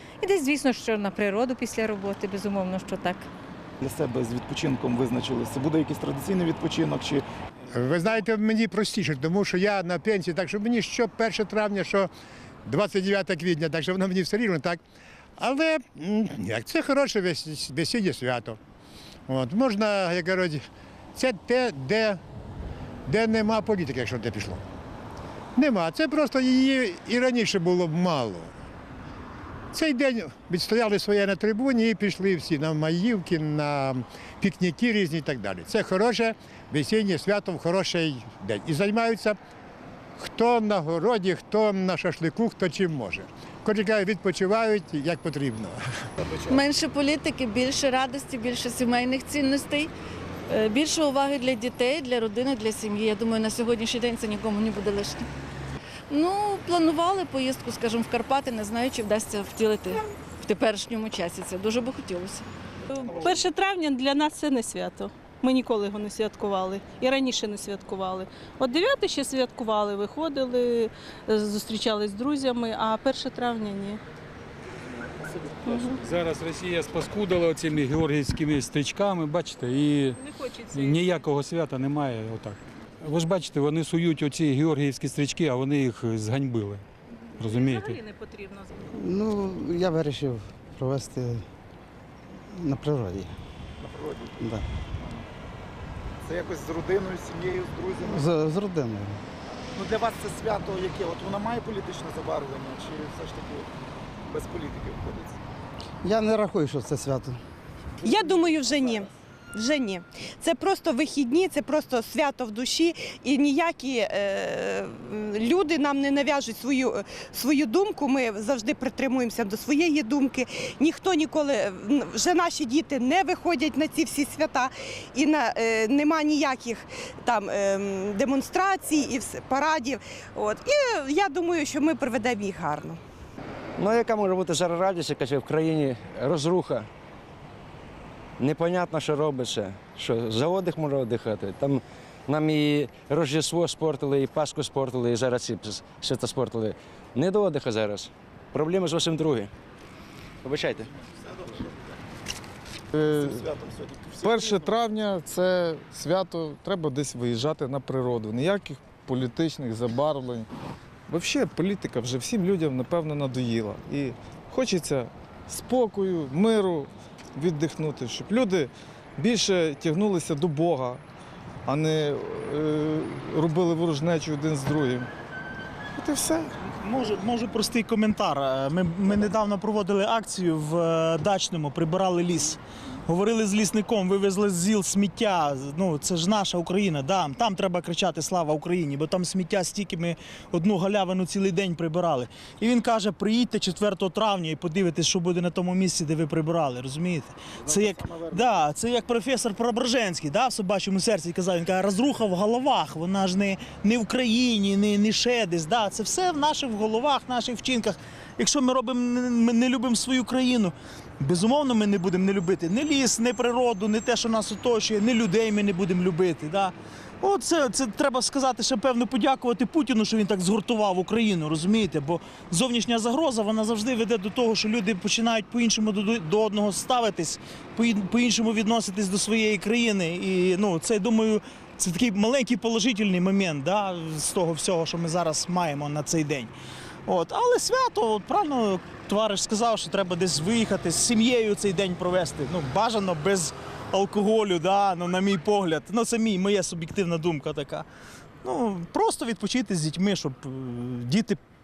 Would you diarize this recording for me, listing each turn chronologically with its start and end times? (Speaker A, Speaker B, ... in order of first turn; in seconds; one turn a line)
Speaker A: 0.2-3.2
Speaker B: 3.8-7.2
Speaker C: 7.7-12.1
Speaker C: 12.7-14.8
Speaker C: 15.4-18.6
Speaker C: 19.3-20.6
Speaker C: 21.1-22.2
Speaker C: 23.1-24.6
Speaker C: 25.6-28.5
Speaker C: 29.7-39.4
Speaker C: 40.2-45.8
Speaker D: 46.5-49.9
Speaker D: 50.5-55.2
Speaker D: 56.1-62.4
Speaker E: 62.9-74.0
Speaker B: 63.0-63.5
Speaker E: 75.7-76.0
Speaker F: 76.0-80.2
Speaker E: 80.2-81.2
Speaker F: 80.7-86.8
Speaker E: 87.4-88.8
Speaker F: 87.4-88.0
Speaker G: 88.9-91.4
Speaker G: 92.5-93.3
Speaker B: 93.8-94.5
Speaker G: 94.4-94.6
Speaker B: 96.2-98.4
Speaker G: 98.0-99.2
Speaker B: 99.8-103.7
Speaker B: 104.3-105.4
Speaker G: 106.0-107.4
Speaker H: 108.0-133.0
Speaker I: 133.8-136.9
Speaker I: 138.4-149.5
Speaker I: 150.4-150.9
Speaker B: 150.8-151.7
Speaker J: 152.9-153.4
Speaker B: 153.1-154.7
Speaker J: 154.2-160.4
Speaker J: 161.1-171.0
Speaker J: 171.7-175.1
Speaker J: 175.9-176.5
Speaker K: 176.6-236.5
Speaker B: 197.6-198.4
Speaker K: 237.1-247.8
Speaker K: 248.4-251.4